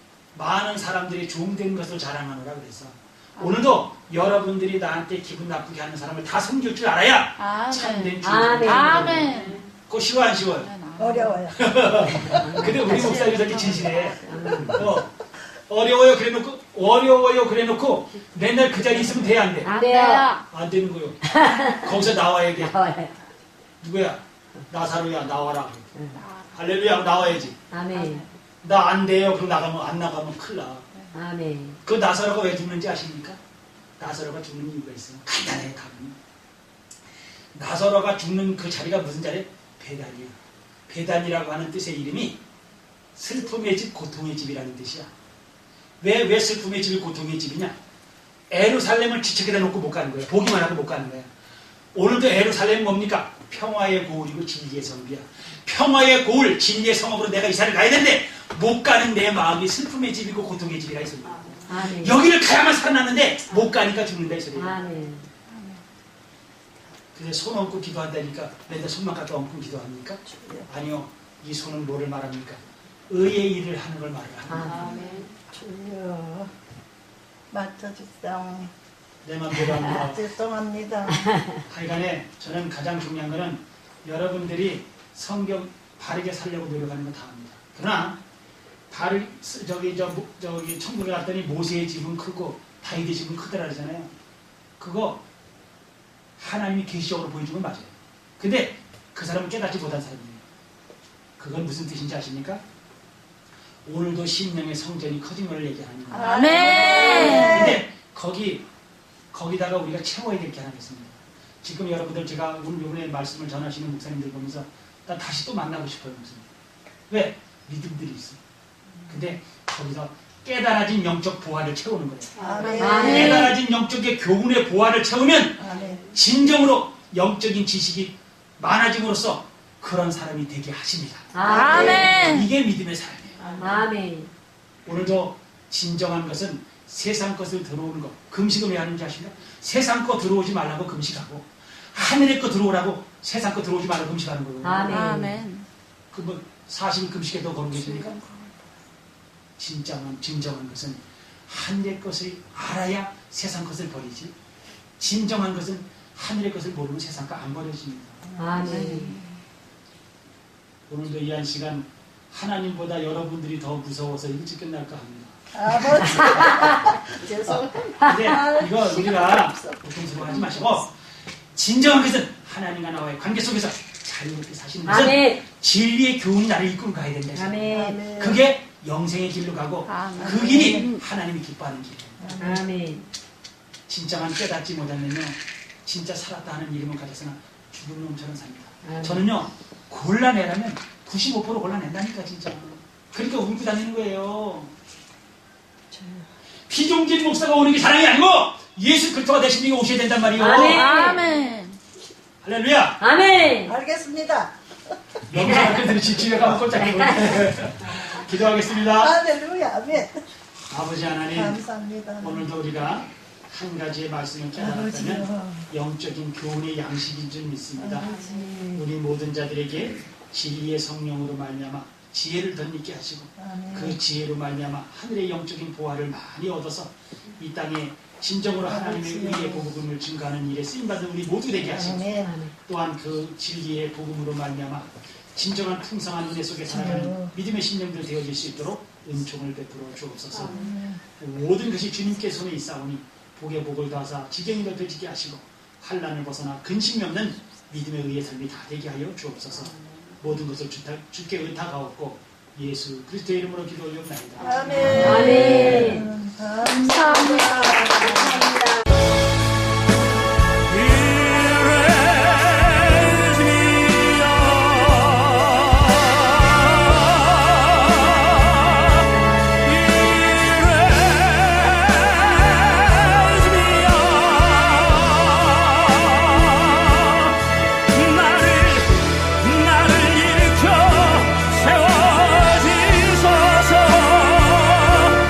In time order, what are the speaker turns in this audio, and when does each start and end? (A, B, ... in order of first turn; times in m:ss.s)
0:00.3-0:09.3 A
0:03.4-0:03.8 B
0:07.4-0:09.6 B
0:08.2-0:09.7 C
0:09.9-0:10.7 A
0:10.4-0:11.7 B
0:11.0-0:11.7 D
0:11.5-0:15.1 A
0:12.0-0:14.9 C
0:12.6-0:14.7 B
0:15.7-0:19.7 A
0:19.5-0:20.4 C
0:19.6-0:20.5 B
0:20.5-0:22.8 A
0:21.2-0:22.0 C
0:22.6-0:23.3 C
0:23.8-0:25.9 A
0:26.0-0:26.2 C
0:26.1-0:28.3 B
0:26.5-0:27.6 A
0:27.7-0:28.3 C
0:28.6-0:30.9 A
0:31.1-0:31.8 C
0:31.8-0:33.4 A
0:34.0-0:36.2 A
0:37.5-0:40.4 A
0:40.9-0:42.4 A
0:43.2-0:45.1 A
0:46.0-0:47.8 A
0:48.5-0:51.3 A
0:51.9-1:04.8 A
1:01.6-1:02.2 C
1:04.5-1:05.3 C
1:05.5-1:05.8 B
1:07.2-1:15.0 A
1:10.3-1:10.7 D
1:14.5-1:15.3 C
1:14.7-1:16.5 D
1:17.5-1:18.7 D
1:19.2-1:20.2 A
1:20.0-1:21.3 D
1:21.7-1:28.2 A
1:28.9-1:34.1 A
1:34.8-1:35.2 A
1:36.4-1:40.4 A
1:41.4-1:42.6 A
1:43.9-1:48.7 A
1:46.1-1:47.8 B
1:46.2-1:47.8 D
1:49.3-1:56.5 A
1:57.1-1:58.4 A
1:59.1-2:13.4 A
2:02.4-2:03.5 D
2:02.6-2:03.6 B
2:02.8-2:03.6 C
2:05.6-2:06.1 D
2:11.3-2:12.4 C
2:11.4-2:12.5 B
2:11.5-2:12.1 D
2:13.4-2:14.3 C
2:13.4-2:13.7 D
2:14.9-2:25.0 A
2:24.6-2:25.4 C
2:24.9-2:25.7 B
2:26.1-2:28.2 A
2:27.7-2:28.7 B
2:29.6-2:34.3 A
2:35.0-2:38.2 A
2:38.3-2:39.1 D
2:38.4-2:39.2 C
2:38.6-2:39.4 B
2:40.9-2:46.7 A
2:45.6-2:50.7 D
2:46.1-2:46.7 C
2:47.5-2:50.9 A
2:48.1-2:48.4 C
2:51.6-3:02.3 A
2:54.8-2:55.4 C
2:57.3-2:58.1 C
2:57.7-2:58.4 D
2:59.9-3:01.0 B
3:00.2-3:00.9 D
3:02.2-3:03.0 D
3:02.3-3:03.1 C
3:03.9-3:14.7 A
3:08.8-3:09.3 C
3:15.9-3:16.3 D
3:16.7-3:20.9 A
3:20.4-3:21.3 C
3:20.5-3:21.8 B
3:22.4-3:23.0 A
3:23.0-3:23.8 C
3:23.6-3:24.6 D
3:25.3-3:29.2 A
3:25.4-3:25.8 C
3:26.7-3:28.0 C
3:28.8-3:30.2 D
3:30.7-3:31.6 A
3:31.3-3:32.5 D
3:32.2-3:38.1 A
3:34.6-3:35.7 D
3:37.8-3:38.9 D
3:38.1-3:38.7 C
3:38.7-3:52.1 A
3:43.4-3:44.0 D
3:48.6-3:49.7 D
3:51.6-3:52.3 D
3:52.2-3:52.5 C
3:52.6-4:00.7 A
3:56.7-3:57.3 D
4:00.3-4:00.9 C
4:00.4-4:01.0 D
4:01.2-4:15.2 A
4:09.5-4:10.2 C
4:14.4-4:18.5 D
4:14.5-4:16.1 C
4:14.7-4:16.0 B
4:16.6-4:18.0 B
4:17.5-4:18.8 C
4:30.0-4:32.1 A
4:32.7-4:34.8 A
4:38.0-4:44.9 A